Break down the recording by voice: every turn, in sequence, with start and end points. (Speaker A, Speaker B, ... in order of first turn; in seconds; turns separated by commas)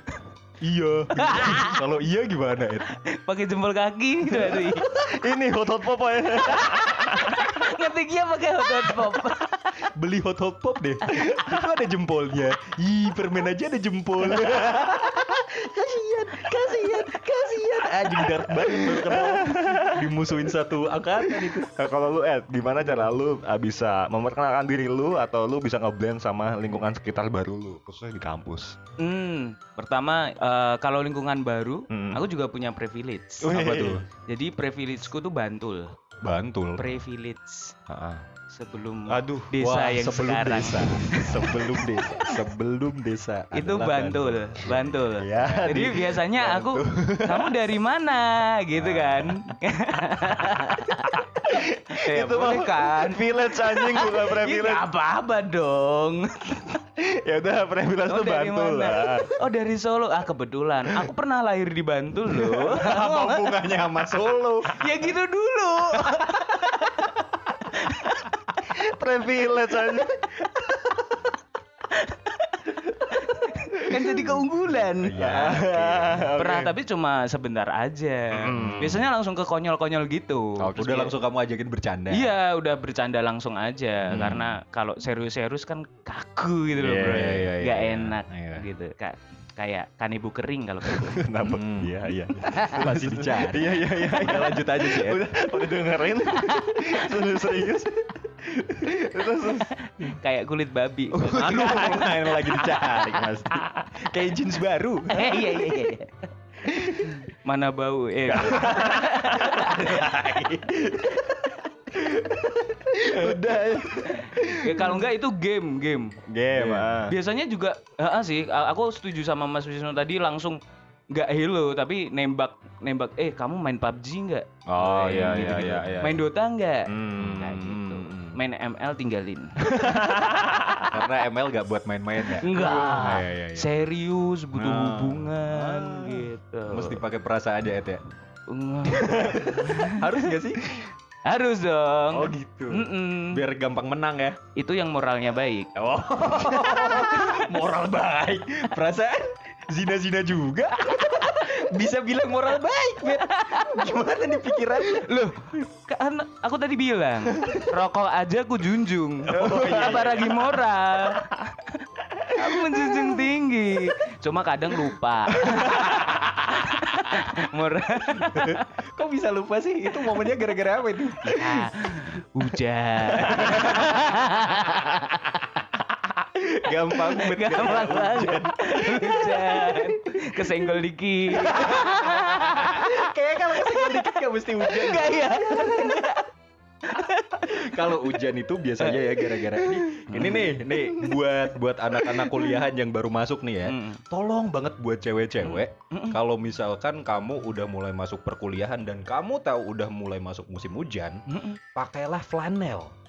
Speaker A: 0.6-2.9, Speaker B: 1.1-1.8, Speaker B: 2.9-4.9, Speaker C: 4.9-7.7, Speaker B: 6.5-9.8, Speaker A: 9.8-21.6, Speaker C: 14.3-14.9, Speaker B: 16.4-18.2, Speaker C: 18.5-20.3, Speaker C: 21.4-28.8, Speaker B: 29.0-35.9, Speaker C: 31.9-32.2, Speaker C: 33.4-34.0, Speaker A: 33.5-34.0, Speaker A: 36.2-36.9, Speaker B: 36.8-37.8, Speaker C: 37.9-38.3, Speaker B: 38.5-41.8, Speaker C: 39.1-39.6, Speaker A: 39.6-46.1, Speaker C: 41.1-42.2, Speaker B: 43.5-56.8, Speaker C: 45.1-47.5, Speaker C: 48.8-49.5, Speaker C: 51.0-54.9, Speaker C: 57.0-59.3, Speaker B: 58.0-63.5, Speaker C: 62.4-64.3, Speaker A: 62.6-64.8, Speaker B: 64.7-67.0, Speaker C: 66.1-66.3, Speaker C: 68.7-70.3, Speaker B: 71.9-75.5, Speaker C: 73.9-74.2, Speaker A: 75.0-76.3, Speaker C: 75.2-76.7, Speaker B: 76.3-81.1, Speaker C: 78.3-79.1, Speaker A: 78.5-79.0, Speaker A: 80.6-82.3, Speaker B: 82.1-91.6, Speaker A: 84.1-84.5, Speaker C: 86.8-87.8, Speaker A: 87.2-88.6, Speaker C: 90.8-99.7, Speaker A: 91.5-95.3, Speaker B: 92.4-92.8, Speaker B: 96.3-96.8, Speaker A: 98.6-98.9, Speaker B: 99.8-102.6, Speaker A: 101.1-105.8, Speaker C: 101.4-103.9, Speaker B: 105.1-106.3, Speaker A: 106.7-107.1, Speaker B: 107.0-109.8, Speaker C: 108.3-111.3, Speaker A: 108.6-111.4, Speaker A: 111.9-113.6, Speaker C: 112.0-112.5, Speaker C: 113.0-115.0, Speaker B: 114.0-116.2, Speaker C: 116.3-117.1, Speaker A: 116.5-117.0, Speaker B: 117.1-120.6, Speaker B: 121.1-129.6, Speaker C: 124.7-126.2, Speaker A: 124.8-125.9, Speaker C: 126.8-128.2, Speaker A: 127.2-127.6, Speaker C: 129.8-130.9, Speaker A: 130.9-133.7, Speaker B: 132.4-137.0, Speaker C: 132.6-133.1, Speaker A: 134.5-138.0, Speaker B: 138.5-140.2, Speaker A: 138.9-140.8, Speaker B: 141.2-143.4, Speaker A: 142.1-144.4, Speaker B: 144.5-145.7, Speaker A: 145.7-155.1, Speaker C: 146.5-147.0, Speaker B: 146.6-147.5, Speaker B: 153.0-153.9, Speaker B: 154.8-161.2, Speaker A: 159.3-160.4, Speaker C: 159.3-160.2, Speaker C: 161.2-161.4, Speaker C: 162.2-163.2, Speaker B: 162.3-168.6, Speaker C: 165.3-166.3, Speaker A: 168.2-172.1, Speaker B: 171.3-175.5, Speaker A: 173.0-174.6, Speaker C: 173.3-173.7, Speaker A: 176.3-180.7, Speaker B: 177.0-183.0, Speaker A: 181.3-186.2, Speaker B: 183.6-186.3, Speaker B: 186.8-188.1, Speaker A: 187.4-202.9, Speaker B: 188.8-191.3, Speaker B: 191.9-192.6, Speaker B: 193.7-194.0, Speaker B: 195.4-196.2, Speaker B: 201.3-201.6